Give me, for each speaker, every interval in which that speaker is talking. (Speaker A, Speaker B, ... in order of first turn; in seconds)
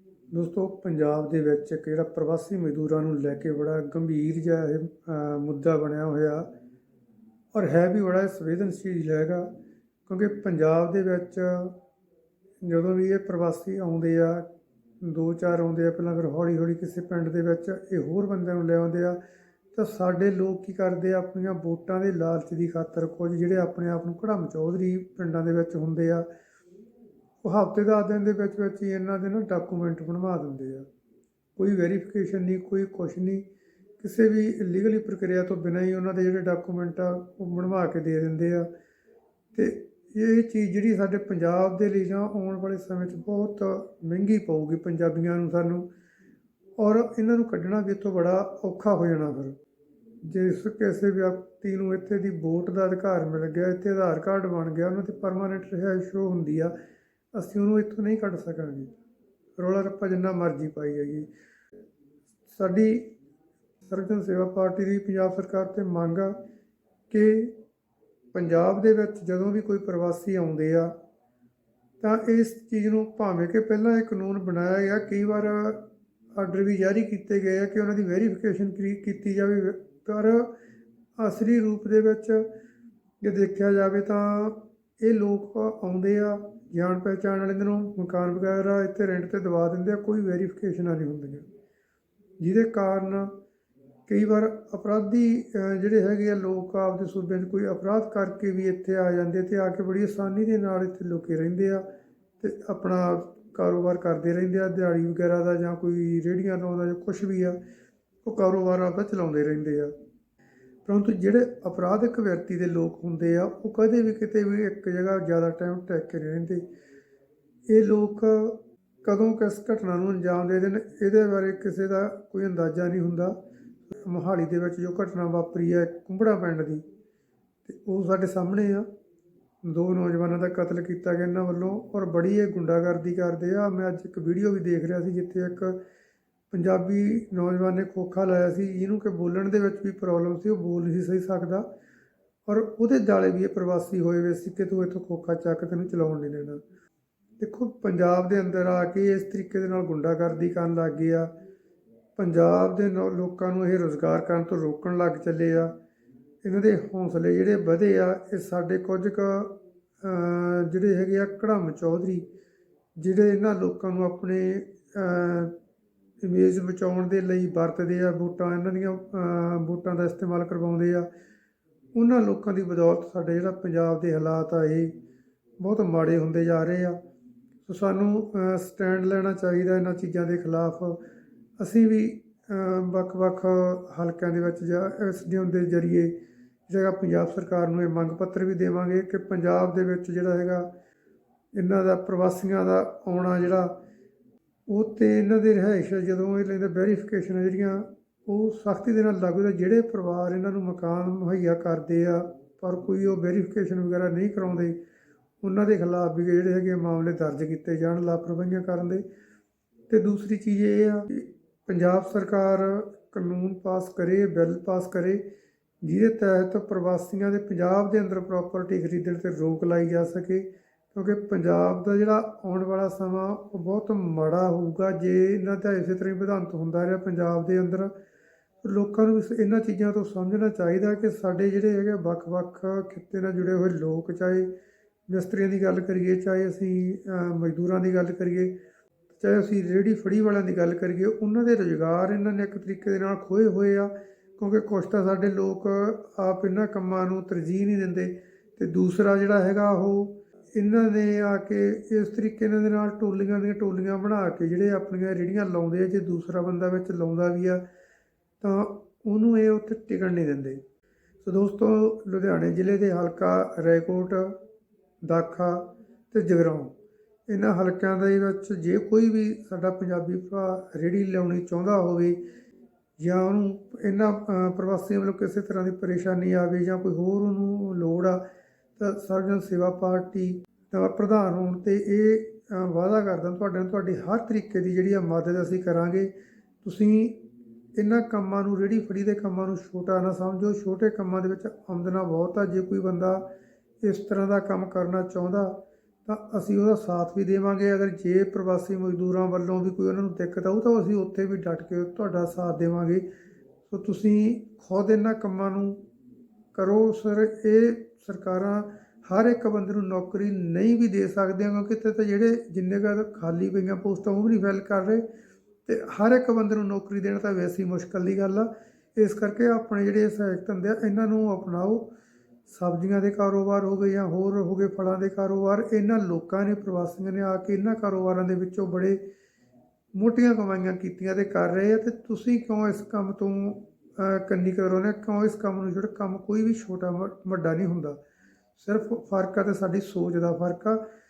Speaker A: 0.3-6.5, 7.5-9.5, 10.1-11.8, 12.6-14.5, 15.0-19.2, 19.7-26.3, 27.4-30.9, 31.6-33.5, 34.0-38.7, 39.5-45.9, 46.8-49.6, 50.2-56.7, 57.3-59.0, 59.6-61.3, 62.5-63.1, 63.8-66.4, 67.1-67.6, 68.3-70.9, 72.0-80.5, 81.2-82.5, 83.2-91.5, 92.4-93.4, 94.1-101.9, 102.4-107.6, 108.2-109.9, 110.9-116.6, 117.7-123.4, 123.9-126.8, 127.7-128.9, 129.6-135.8, 136.5-141.7, 142.5-146.6, 147.4-151.3, 152.2-155.8, 156.4-162.3, 163.0-165.6, 166.2-171.1, 171.9-174.9, 175.6-177.0, 177.7-181.0, 181.6-186.1, 186.7-190.7, 191.6-193.8, 194.7-204.8, 205.4-209.0, 209.9-215.2, 215.8-227.9, 228.6-234.5, 235.1-238.6, 239.1-257.6, 258.4-260.6, 261.2-264.4, 265.0-266.7, 267.3-272.2, 273.0-278.2, 278.8-286.1, 286.6-287.2, 287.8-293.3, 293.8-303.1, 303.7-305.8, 306.6-315.1, 315.7-321.9, 322.5-329.0, 329.9-338.0, 338.6-340.8